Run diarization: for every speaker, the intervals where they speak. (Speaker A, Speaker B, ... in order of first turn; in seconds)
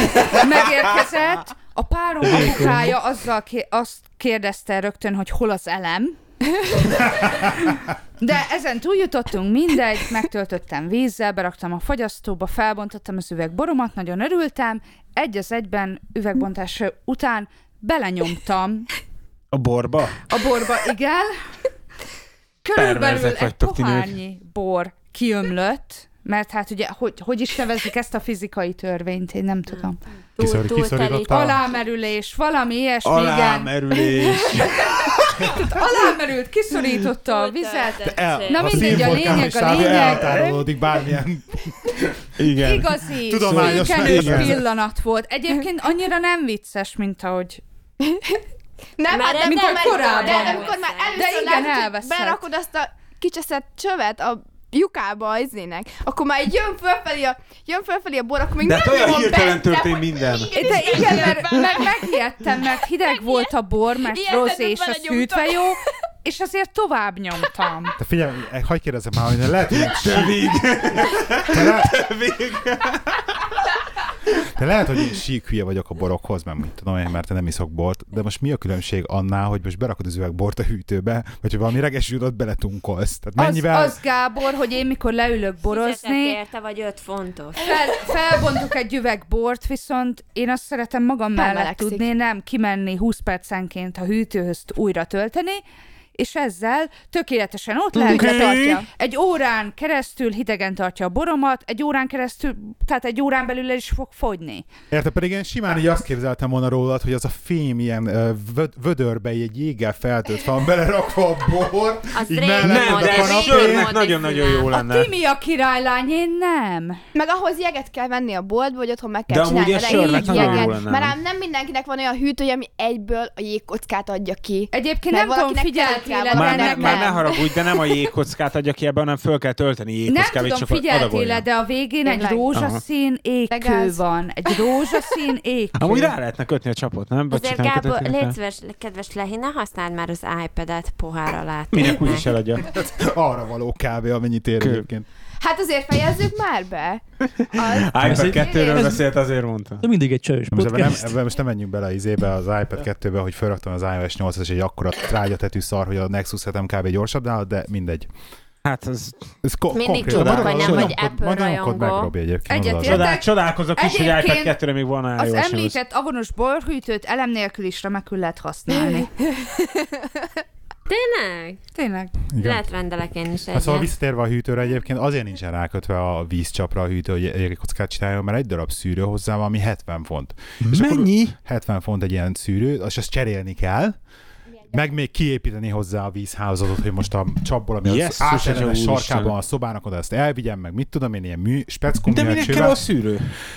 Speaker A: 0.2-6.2, 7.3-18.9, 20.3-21.3, 22.6-30.0, 31.3-33.7, 35.3-40.6, 42.6-47.6, 49.4-52.4, 60.5-67.9, 83.4-86.4, 87.6-95.6, 96.2-104.7, 114.8-117.0, 119.9-120.6, 124.7-127.2, 130.1-136.1, 162.5-164.5, 165.2-169.1, 171.7-172.2
Speaker B: 2.3-2.9, 148.0-149.0, 149.8-151.2
Speaker C: 19.5-20.2, 22.8-24.1, 33.0-35.6, 39.7-40.5, 42.4-42.9, 43.5-44.6, 58.6-61.4, 69.7-73.5, 98.0-98.8, 112.6-115.1, 119.3-121.2, 126.3-131.4, 132.5-132.8, 135.8-138.3, 141.7-142.7, 144.6-144.8, 147.4-149.8, 158.6-159.2, 160.0-160.9, 162.8-165.8, 180.6-181.3, 187.8-189.3, 192.1-193.3
Speaker D: 30.3-31.4, 37.2-39.1, 49.1-51.3, 85.6-87.7, 112.1-114.7, 137.3-142.3, 159.7-162.1, 170.9-171.6, 172.4-173.9
Speaker E: 30.4-31.6, 38.0-42.1, 43.3-44.6, 68.0-70.5, 71.4-72.0, 74.4-84.0, 104.9-113.9, 142.6-145.1, 150.5-158.1, 159.4-163.1, 172.3-172.6, 173.5-184.0, 184.7-192.8
Speaker F: 34.1-34.6, 48.0-48.4, 49.0-62.0, 63.1-63.5, 64.0-65.7, 91.3-92.1, 117.1-128.0, 132.0-132.5, 133.5-134.0, 145.4-147.0, 147.5-149.0, 169.4-170.0